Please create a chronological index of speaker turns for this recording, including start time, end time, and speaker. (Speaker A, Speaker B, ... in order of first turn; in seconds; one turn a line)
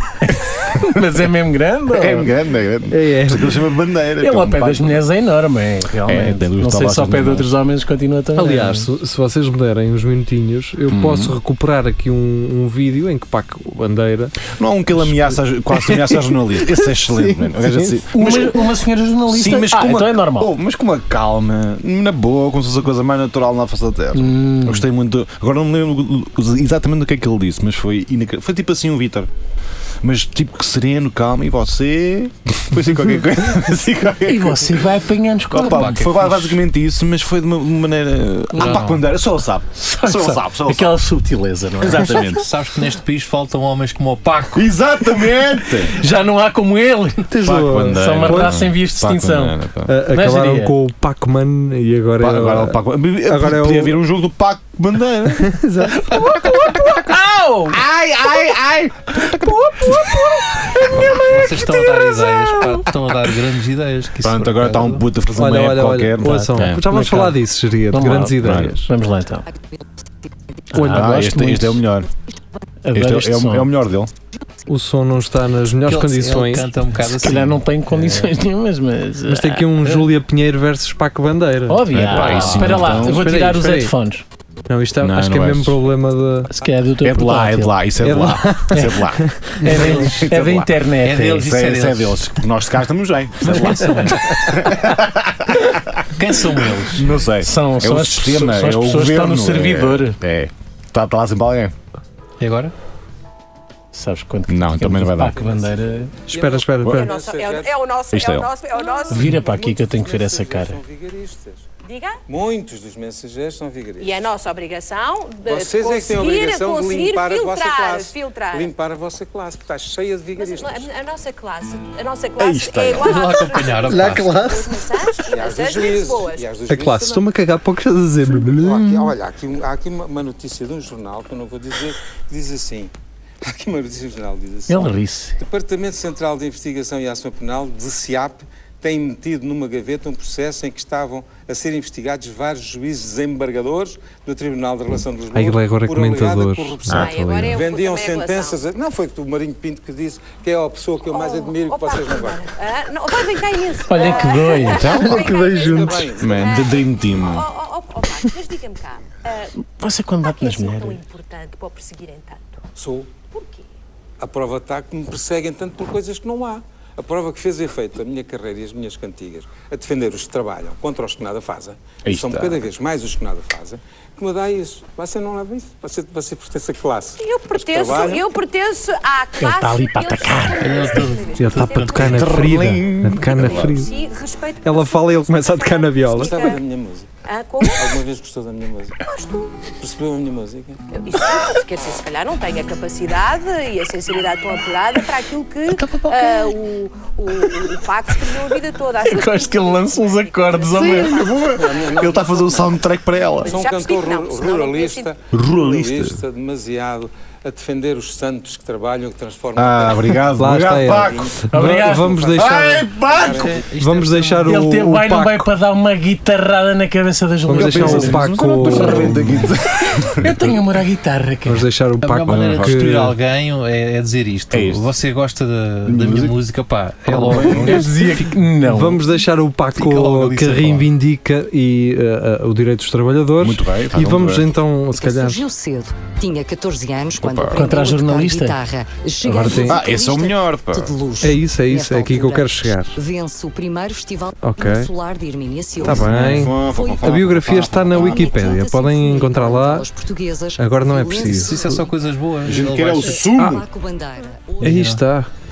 Speaker A: 0.2-2.3
Speaker B: 1.9-5.0
Speaker C: 2.9-3.6
Speaker A: 4.2-8.9
Speaker B: 6.0-7.5
Speaker C: 8.4-14.4
Speaker B: 10.9-11.3
Speaker B: 14.6-18.6
Speaker C: 17.1-17.9
Speaker A: 18.1-20.5
Speaker B: 19.3-29.3
Speaker A: 24.1-24.9
Speaker B: 30.0-34.8
Speaker A: 34.2-36.0
Speaker B: 35.5-41.0
Speaker D: 35.6-36.6
Speaker D: 38.5-39.0
Speaker A: 39.7-42.4
Speaker B: 41.8-42.5
Speaker D: 42.1-44.7
Speaker B: 44.5-46.0
Speaker A: 45.8-50.8
Speaker C: 47.3-48.6
Speaker B: 47.4-49.9
Speaker C: 49.9-54.0
Speaker B: 52.2-57.1
Speaker C: 55.3-56.3
Speaker A: 56.1-57.8
Speaker B: 57.7-60.1
Speaker A: 59.5-60.9
Speaker D: 60.9-65.0
Speaker A: 61.6-62.8
Speaker B: 64.2-66.8
Speaker C: 65.3-68.9
Speaker A: 66.2-67.4
Speaker A: 67.9-69.5
Speaker B: 68.4-68.8
Speaker A: 70.7-71.8
Speaker B: 70.7-72.1
Speaker A: 72.8-73.7
Speaker B: 72.9-74.1
Speaker C: 74.7-76.7
Speaker D: 75.8-78.3
Speaker A: 77.1-80.1
Speaker C: 79.3-83.9
Speaker A: 81.7-84.2
Speaker B: 81.9-83.2
Speaker D: 82.1-83.0
Speaker C: 84.7-86.5
Speaker B: 85.0-85.8
Speaker A: 86.5-87.8
Speaker B: 87.0-90.7
Speaker C: 88.0-89.9
Speaker A: 88.7-89.0
Speaker A: 89.6-91.5
Speaker D: 89.7-90.2
Speaker D: 91.0-92.3
Speaker B: 91.3-96.0
Speaker D: 93.4-94.3
Speaker D: 96.1-97.1
Speaker B: 96.9-101.7
Speaker A: 97.4-100.2
Speaker D: 102.4-102.7
Speaker A: 103.9-106.1
Speaker B: 104.5-105.4
Speaker E: 105.3-107.8
Speaker C: 106.3-107.1
Speaker F: 106.9-109.3
Speaker B: 108.1-108.5
Speaker E: 109.0-111.7
Speaker A: 109.1-110.8
Speaker F: 111.8-112.2
Speaker E: 112.3-114.3
Speaker F: 114.0-118.7
Speaker E: 115.5-120.9
Speaker F: 120.4-126.5
Speaker B: 122.4-123.1
Speaker D: 123.0-124.4
Speaker C: 123.8-124.8
Speaker E: 125.3-127.3
Speaker C: 126.7-129.1
Speaker E: 128.5-152.5
Speaker A: 134.7-135.4
Speaker C: 145.3-147.6
Speaker B: 146.9-147.1
Speaker F: 146.9-148.6
Speaker F: 151.1-159.5
Speaker A: 153.8-154.9
Speaker E: 153.9-154.4
Speaker B: 154.7-155.3
Speaker C: 154.9-156.1
Speaker E: 154.9-156.7
Speaker B: 156.2-157.5
Speaker A: 159.6-161.0
Speaker F: 160.2-162.6
Speaker E: 162.8-163.1
Speaker F: 163.3-163.7
Speaker E: 164.2-178.3
Speaker B: 172.0-172.7
Speaker F: 177.2-182.2
Speaker A: 179.4-180.9
Speaker D: 180.6-182.5
Speaker C: 181.3-183.9
Speaker B: 181.9-183.9
Speaker F: 183.3-186.6
Speaker C: 184.6-186.6
Speaker E: 186.1-187.1
Speaker F: 187.2-188.0
Speaker E: 187.6-189.1
Speaker F: 189.0-189.5
Speaker E: 189.7-190.8
Speaker F: 190.9-202.6
Speaker B: 195.8-196.4
Speaker A: 197.5-198.4
Speaker A: 199.0-201.2
Speaker B: 200.8-203.6
Speaker E: 201.4-202.8
Speaker F: 203.3-205.1
Speaker E: 203.4-210.2
Speaker B: 205.3-206.2
Speaker B: 209.6-211.3
Speaker C: 210.3-212.9
Speaker E: 210.7-213.6
Speaker A: 211.5-212.2
Speaker B: 212.3-213.6
Speaker D: 213.3-214.6
Speaker C: 213.7-215.5
Speaker A: 214.4-219.5
Speaker C: 217.4-219.3
Speaker B: 217.5-220.3
Speaker A: 220.1-221.7
Speaker C: 221.4-223.2
Speaker D: 222.0-228.5
Speaker B: 222.3-222.8
Speaker B: 224.5-224.9
Speaker B: 225.8-226.4
Speaker B: 227.1-227.9
Speaker A: 227.6-229.0
Speaker C: 228.6-235.4
Speaker D: 229.8-230.9
Speaker B: 233.4-234.5
Speaker G: 234.9-251.9
Speaker B: 237.2-237.7
Speaker A: 237.5-238.6
Speaker C: 239.2-239.8
Speaker B: 239.5-240.9
Speaker C: 241.2-242.9
Speaker C: 244.4-244.9
Speaker B: 245.8-248.3
Speaker C: 245.8-249.9
Speaker C: 250.6-251.8
Speaker D: 251.1-253.2
Speaker B: 252.4-253.6
Speaker G: 253.0-254.8
Speaker C: 253.3-253.6
Speaker D: 254.6-255.0
Speaker C: 254.6-255.3